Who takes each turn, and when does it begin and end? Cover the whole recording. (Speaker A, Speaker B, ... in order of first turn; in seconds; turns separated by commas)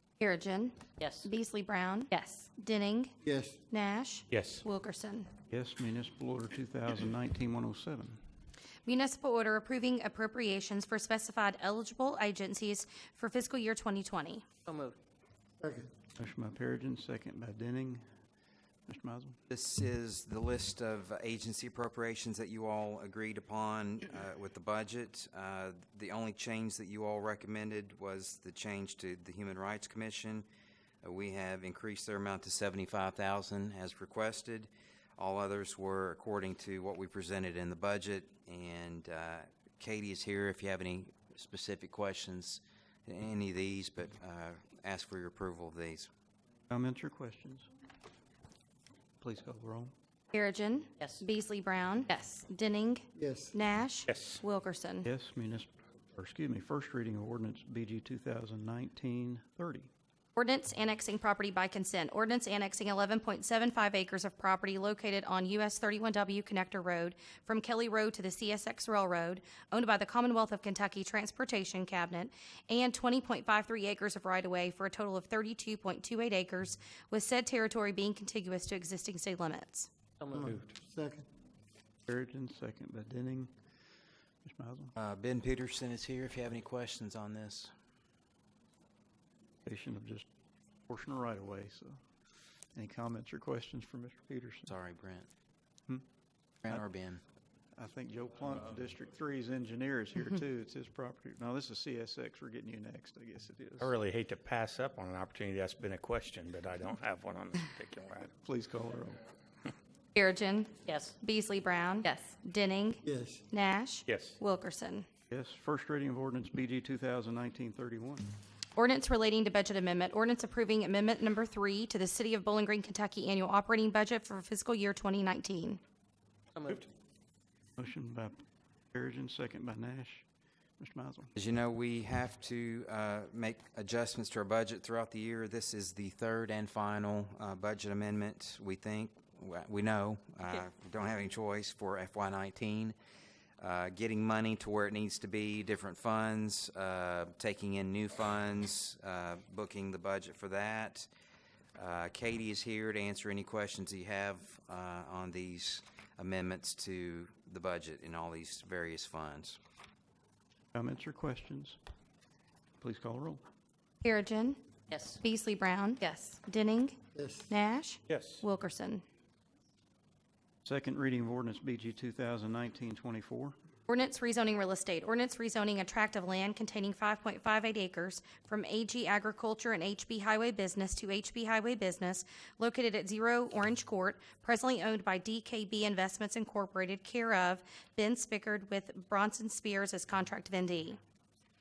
Speaker A: 0.2-3.1, Speaker B: 1.0-1.3, Speaker C: 3.2-3.6, Speaker A: 3.7-5.3, Speaker D: 4.3-4.7, Speaker E: 5.5-8.2, Speaker A: 8.9-14.4, Speaker B: 14.7-15.0, Speaker C: 15.6-15.9, Speaker E: 16.2-18.1, Speaker E: 18.9-19.4, Speaker F: 19.5-30.5, Speaker F: 31.0-46.1, Speaker E: 46.7-47.7, Speaker E: 49.2-49.9, Speaker A: 50.3-55.1, Speaker C: 53.2-53.5, Speaker D: 54.1-54.4, Speaker E: 55.0-59.9, Speaker A: 60.4-79.9, Speaker B: 80.2-80.5, Speaker D: 80.3-80.7, Speaker C: 80.9-81.2, Speaker E: 82.1-83.5, Speaker E: 84.4-84.9, Speaker F: 85.0-87.7, Speaker E: 89.7-90.3, Speaker E: 90.9-92.0, Speaker E: 92.8-94.8, Speaker F: 94.7-95.3, Speaker F: 96.6-97.2, Speaker E: 97.8-103.9, Speaker D: 103.8-108.3, Speaker E: 108.2-109.2, Speaker A: 110.2-110.7, Speaker B: 110.9-111.2, Speaker A: 111.2-115.1, Speaker C: 113.1-113.5, Speaker D: 114.1-114.4, Speaker E: 115.3-118.3, Speaker A: 118.8-125.8, Speaker B: 126.6-126.9, Speaker E: 127.8-128.4, Speaker E: 128.9-130.3, Speaker E: 130.8-131.3, Speaker F: 131.4-142.9, Speaker F: 143.6-151.1, Speaker F: 151.8-159.6, Speaker E: 160.7-161.8, Speaker E: 162.8-163.4, Speaker A: 164.0-164.6, Speaker B: 164.9-165.2, Speaker A: 165.2-166.9, Speaker A: 167.5-169.0, Speaker D: 168.1-168.4, Speaker E: 170.7-173.6, Speaker A: 173.9-191.0